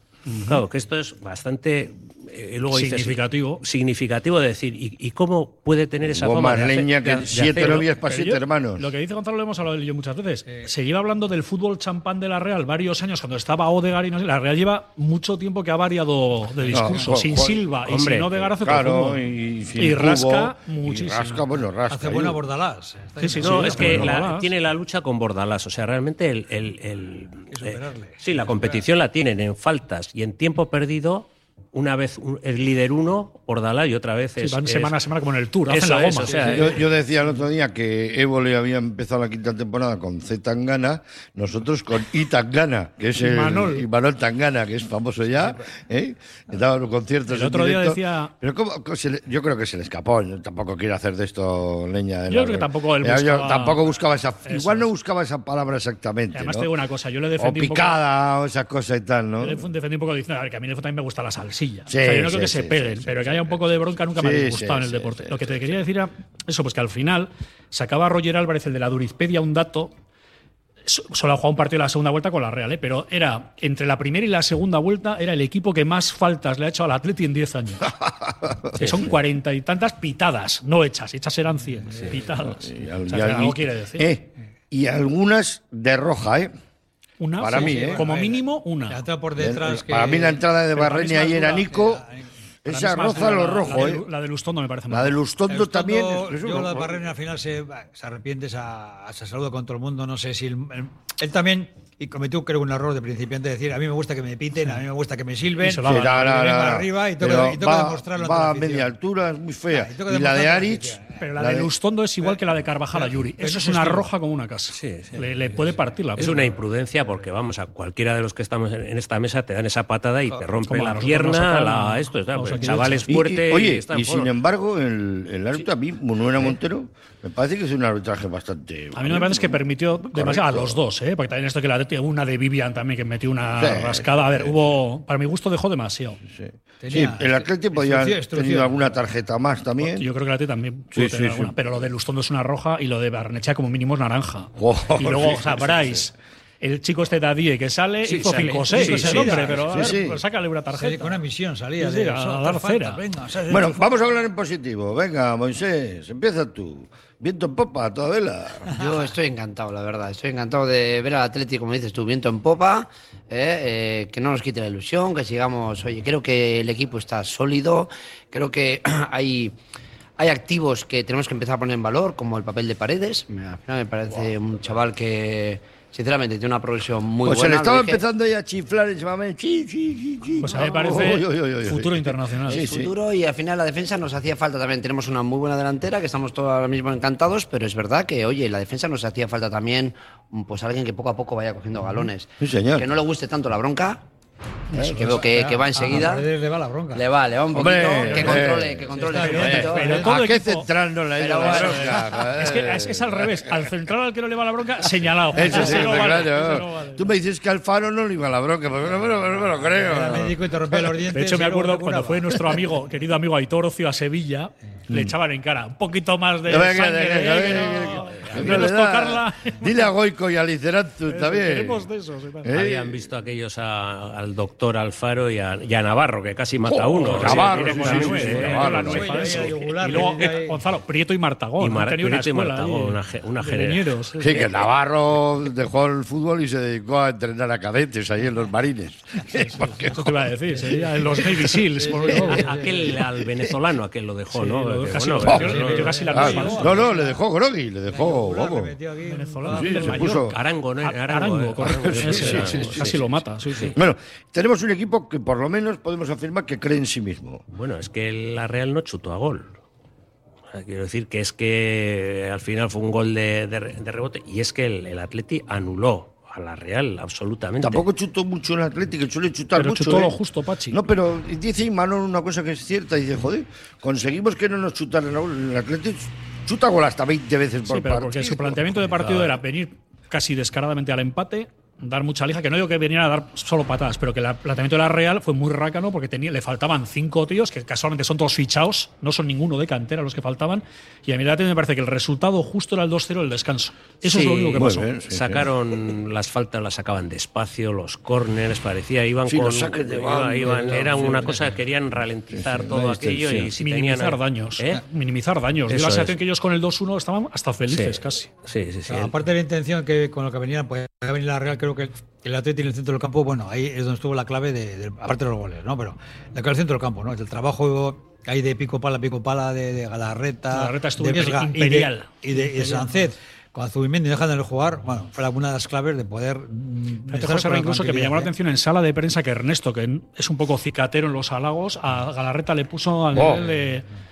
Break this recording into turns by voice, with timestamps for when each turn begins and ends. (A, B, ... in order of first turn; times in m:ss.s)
0:00.3-0:00.6 A
0:00.4-0:07.9 B
0:02.7-0:03.6 A
0:06.1-0:08.8 C
0:07.3-0:19.2 A
0:16.6-0:17.0 D
0:16.7-0:17.6 C
0:17.8-0:18.4 B
0:18.6-0:22.4 C
0:19.8-0:21.4 A
0:21.9-0:24.2 D
0:23.2-0:24.5 A
0:23.4-0:35.0 B
0:27.5-0:28.8 D
0:34.4-0:36.5 A
0:35.7-0:36.8 B
0:36.2-0:36.8 D
0:36.5-0:56.7 C
0:43.2-0:43.8 A
0:47.3-0:48.3 A
0:52.3-0:54.9 A
0:56.3-0:58.0 A
0:57.4-0:59.6 C
0:59.4-1:09.9 A
1:01.9-1:05.6 C
1:10.8-1:17.9 A
1:18.0-1:19.1 C
1:18.8-1:24.1 A
1:21.9-1:22.2 D
1:22.1-1:26.5 C
1:27.2-1:29.0 A
1:27.4-1:28.1 C
1:27.4-1:32.3 D
1:29.4-1:32.1 C
1:30.8-1:31.7 A
1:32.6-1:34.1 C
1:32.7-1:35.2 A
1:33.0-1:33.7 D
1:34.9-1:37.0 C
1:35.5-1:48.9 D
1:45.6-1:46.3 A
1:45.8-1:51.7 C
1:49.7-1:51.3 D
1:51.2-1:56.3 A
1:52.9-1:54.1 D
1:54.7-1:55.2 B
1:55.1-1:56.6 D
1:56.2-2:04.3 B
2:00.7-2:03.1 A
2:03.1-2:10.8 C
2:08.9-2:16.2 A
2:13.6-2:14.5 C
2:16.3-2:20.1 C
2:16.8-2:18.8 D
2:19.8-2:31.2 A
2:20.9-2:21.6 C
2:24.6-2:26.1 C
2:28.1-2:29.4 B
2:28.7-2:30.0 D
2:29.7-2:30.2 C
2:30.7-2:33.9 D
2:31.8-2:33.0 A
2:33.5-2:38.7 C
2:38.7-2:49.6 E
2:50.2-2:58.0 E
2:57.2-3:02.9 C
3:00.4-3:02.6 A
3:02.5-3:14.0 E
3:12.4-3:12.9 C
3:14.7-3:15.1 A
3:14.7-3:16.3 E
3:14.9-3:17.0 D
3:16.9-3:20.1 E
3:17.5-3:23.5 C
3:18.1-3:18.5 A
3:18.9-3:20.1 D
3:19.1-3:20.7 A
3:21.2-3:22.2 E
3:21.5-3:27.1 A
3:25.3-3:30.9 C
3:25.5-3:25.8 D
3:29.6-3:32.6 D
3:31.1-3:39.7 A
3:36.4-3:41.8 C
3:41.1-3:42.5 A
3:42.4-3:43.1 C
3:42.5-3:49.4 B
3:46.6-3:49.3 C
3:47.0-3:54.4 A
3:48.4-3:50.6 D
3:51.6-3:53.9 B
3:54.2-4:00.3 C
3:59.3-4:02.7 A
4:00.6-4:00.9 D
4:01.1-4:01.6 C
4:01.7-4:02.9 D
4:02.3-4:06.1 B
4:04.3-4:06.9 A
4:05.2-4:07.2 D
4:05.2-4:08.7 C
4:07.9-4:10.0 D
4:09.1-4:13.8 A
4:09.5-4:10.4 C
4:10.1-4:13.7 B
4:11.7-4:13.0 C
4:13.7-4:17.4 C
4:17.5-4:19.6 B
4:20.5-4:27.8 B
4:27.6-4:30.2 C
4:29.6-4:30.8 A
4:30.7-4:39.4 C
4:37.7-4:54.9 A
4:54.1-5:04.8 B
4:54.5-4:55.5 C
4:59.2-5:01.4 C
5:02.3-5:03.5 C
5:03.6-5:08.3 A
5:05.7-5:06.2 B
5:07.7-5:09.1 B
5:08.9-5:28.3 D
5:20.5-5:23.0 A
5:27.1-5:33.9 A
5:33.1-5:33.4 C